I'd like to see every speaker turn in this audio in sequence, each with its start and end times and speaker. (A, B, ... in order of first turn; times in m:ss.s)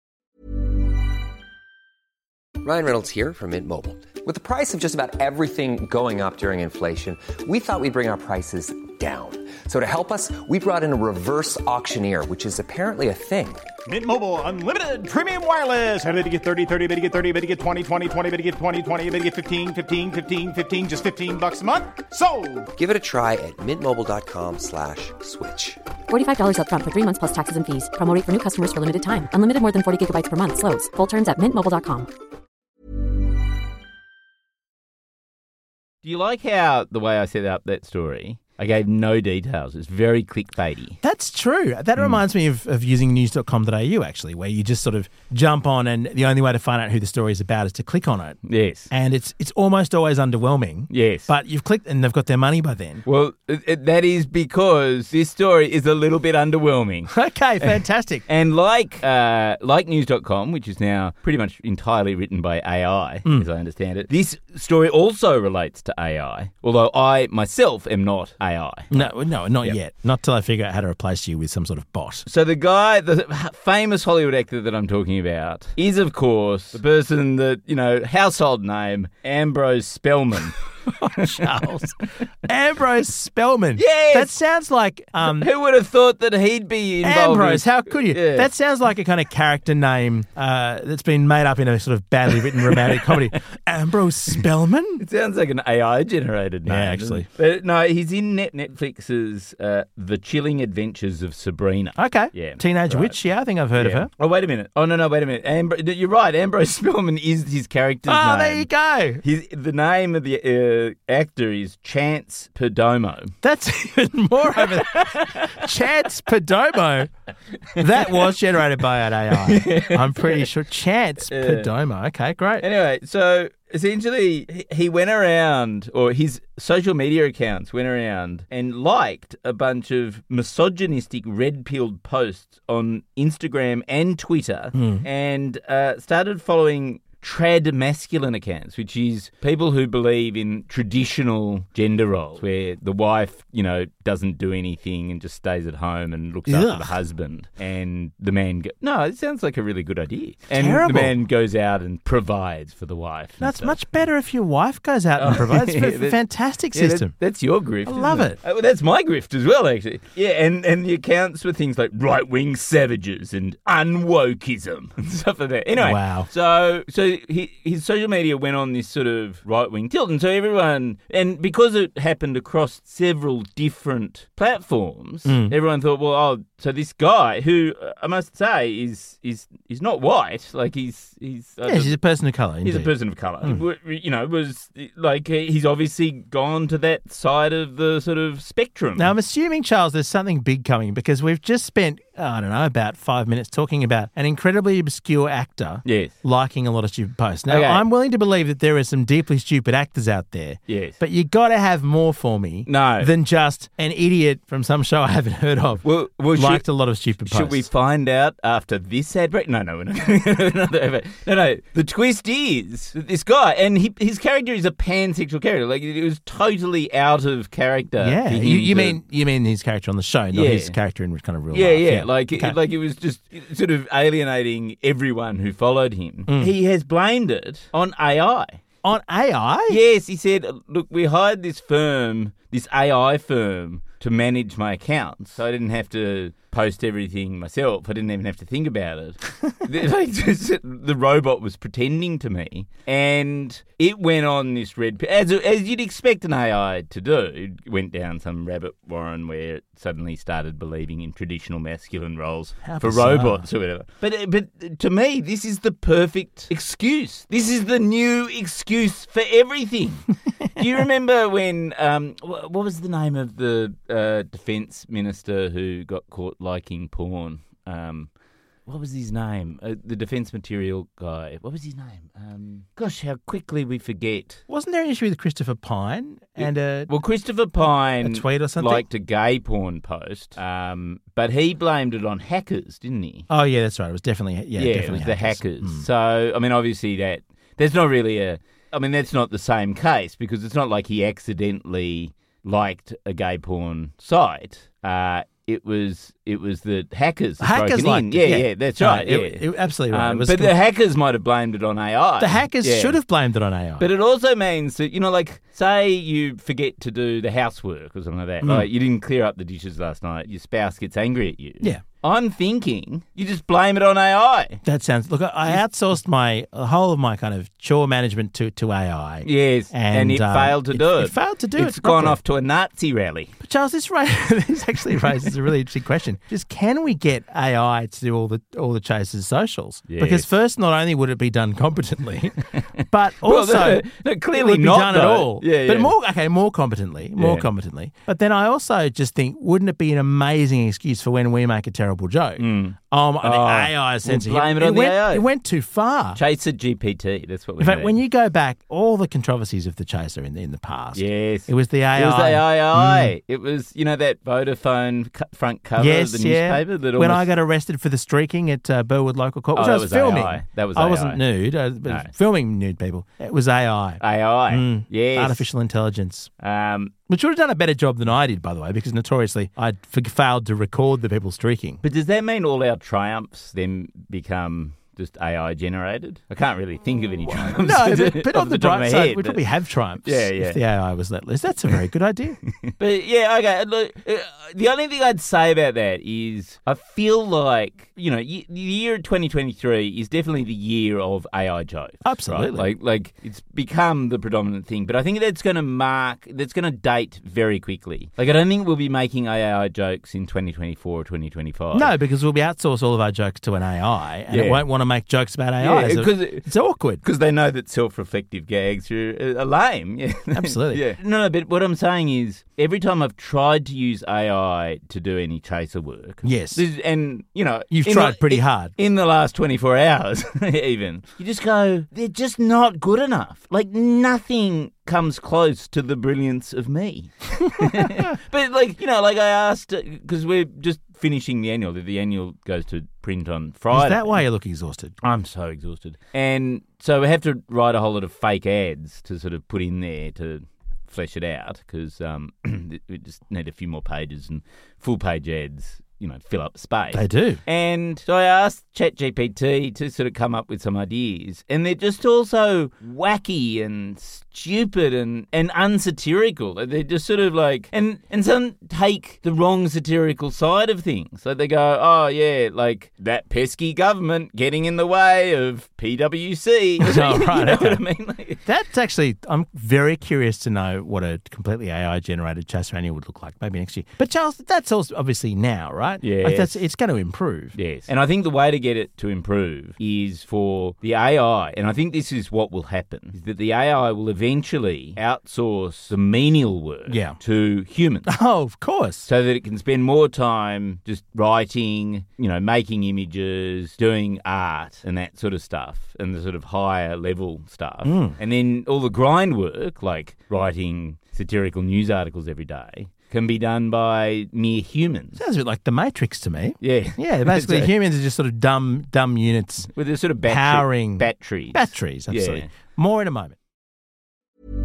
0:02.6-0:13.6 A
0:13.9-0:22.7 B
0:22.8-0:25.8 A
0:26.1-0:32.1 C
0:36.0-0:41.0 D
0:41.0-0:48.4 E
0:48.5-0:48.9 D
0:48.9-0:53.0 E
0:50.9-0:51.3 D
0:53.0-0:57.1 D
0:57.1-0:58.2 E
0:57.6-1:09.8 D
1:08.9-1:12.2 E
1:12.3-1:20.6 D
1:20.9-1:25.5 E
1:23.8-1:24.3 D
1:25.2-1:28.5 D
1:27.0-1:35.0 E
1:35.0-1:43.2 D
1:36.7-1:37.3 E
1:42.0-1:44.1 E
1:43.8-1:48.7 D
1:48.1-1:49.2 E
1:49.2-1:53.4 D
1:53.4-1:57.1 E
1:54.6-1:55.6 D
1:57.8-2:02.7 E
1:57.8-1:58.2 D
1:59.4-2:00.5 D
2:01.3-2:01.7 D
2:02.6-2:33.8 D
2:14.8-2:15.0 E
2:26.5-2:27.0 E
2:30.5-2:31.2 E
2:33.4-2:37.1 E
2:35.2-2:36.2 D
2:36.7-3:02.0 D
2:37.8-2:38.4 E
2:45.8-2:46.3 E
2:55.3-2:55.6 E
3:01.6-3:03.6 E
3:02.6-3:09.1 D
3:09.0-3:27.7 E
3:15.8-3:16.2 D
3:17.5-3:17.8 D
3:20.7-3:21.0 D
3:22.7-3:23.1 D
3:25.8-3:26.7 D
3:27.2-3:39.0 D
3:38.0-3:42.6 E
3:40.3-3:40.8 D
3:41.5-3:48.6 D
3:46.3-3:46.5 E
3:48.8-3:49.8 E
3:49.7-4:28.1 D
4:12.6-4:13.5 E
4:28.7-4:34.4 D
4:34.5-4:36.9 E
4:36.4-4:43.3 D
4:38.0-4:38.8 E
4:43.3-4:45.9 E
4:44.6-5:03.0 D
4:57.4-5:00.5 E
5:02.2-5:03.9 E
5:03.8-5:14.6 D
5:14.6-5:22.2 E
5:19.2-5:23.3 D
5:23.4-5:46.2 E
5:29.9-5:30.3 D
5:33.2-5:35.9 D
5:37.2-5:37.5 D
5:42.4-5:45.3 D
5:46.2-5:48.0 D
5:47.6-5:53.1 E
5:51.0-5:57.3 D
5:55.8-6:06.3 E
5:59.5-6:01.2 D
6:01.9-6:02.1 D
6:04.0-6:05.5 D
6:06.4-6:06.9 D
6:07.1-6:11.8 E
6:11.8-6:19.4 D
6:17.4-6:22.4 E
6:20.0-6:20.6 D
6:22.8-6:41.9 D
6:32.0-6:32.7 E
6:41.7-6:47.0 E
6:44.3-6:44.6 D
6:45.6-6:46.5 D
6:47.0-7:14.2 D
6:50.3-6:50.8 E
6:56.2-6:56.6 E
6:57.7-6:58.7 E
7:07.6-7:08.1 E
7:13.7-7:15.0 E
7:15.0-7:48.4 D
7:26.9-7:27.4 E
7:46.8-7:47.8 E
7:48.5-7:57.6 E
7:56.0-7:56.6 D
7:57.6-8:08.1 D
8:06.9-8:07.2 E
8:08.1-8:09.1 E
8:09.1-8:25.2 D
8:17.8-8:18.2 E
8:25.2-8:29.7 E
8:26.6-8:27.7 D
8:29.8-8:32.5 D
8:30.2-8:33.4 E